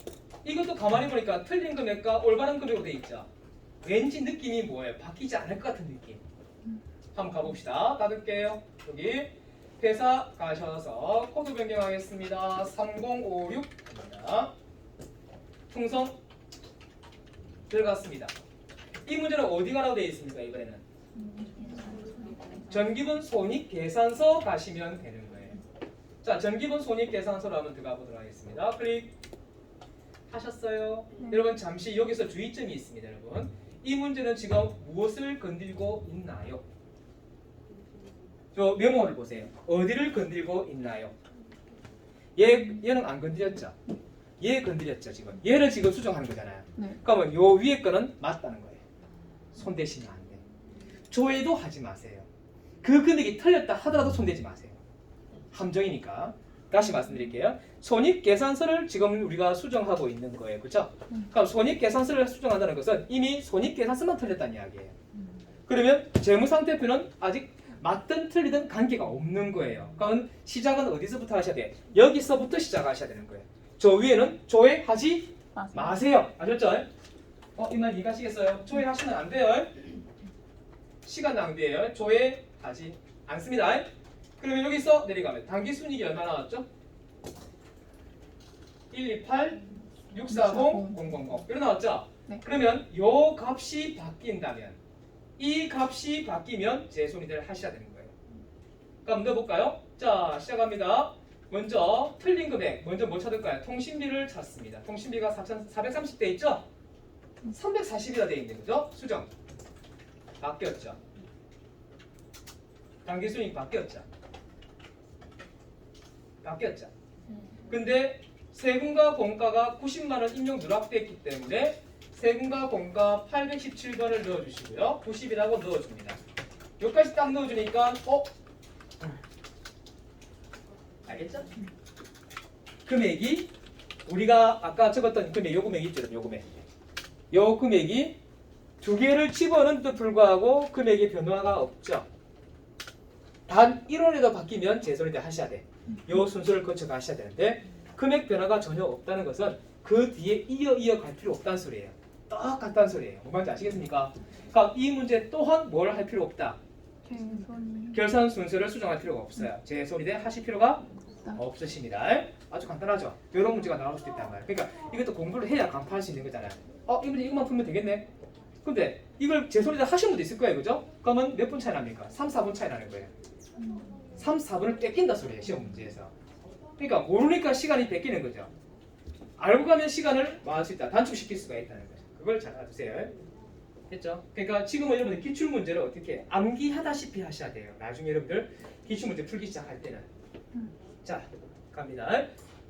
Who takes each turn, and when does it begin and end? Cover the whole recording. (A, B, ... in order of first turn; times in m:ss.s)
0:00.4-0:03.3 A
0:03.8-0:06.2 A
0:07.1-0:14.5 A
0:15.7-0:16.2 A
0:17.7-0:18.3 A
0:19.0-0:20.8 A
0:21.2-0:22.1 B
0:22.6-0:25.6 A
0:26.2-0:29.1 A
0:30.3-0:36.6 A
0:38.5-0:41.1 A
0:42.4-0:43.9 A
0:44.4-0:48.8 A
0:49.5-0:50.4 A
0:51.1-0:52.3 A
0:52.8-0:54.8 A
0:55.5-1:05.0 A
1:05.7-1:16.9 A
1:15.6-1:15.9 B
1:17.6-1:19.9 A
1:21.0-1:26.6 A
1:28.9-1:34.8 A
1:30.3-1:31.0 B
1:35.4-1:38.2 A
1:39.0-1:46.6 A
1:47.4-1:49.3 A
1:50.4-1:51.0 A
1:53.0-1:54.1 A
1:56.4-1:56.9 A
1:57.7-2:06.2 A
2:06.8-2:08.3 A
2:11.0-2:11.6 A
2:12.8-2:13.5 A
2:14.0-2:16.6 A
2:17.3-2:18.2 A
2:18.8-2:22.1 A
2:23.5-2:36.6 A
2:37.0-2:38.0 B
2:37.9-2:48.1 A
2:48.6-2:53.1 A
2:53.6-2:54.0 B
2:54.1-2:56.1 A
2:56.8-2:58.5 A
2:59.4-3:03.1 A
3:03.9-3:10.1 A
3:11.0-3:12.3 A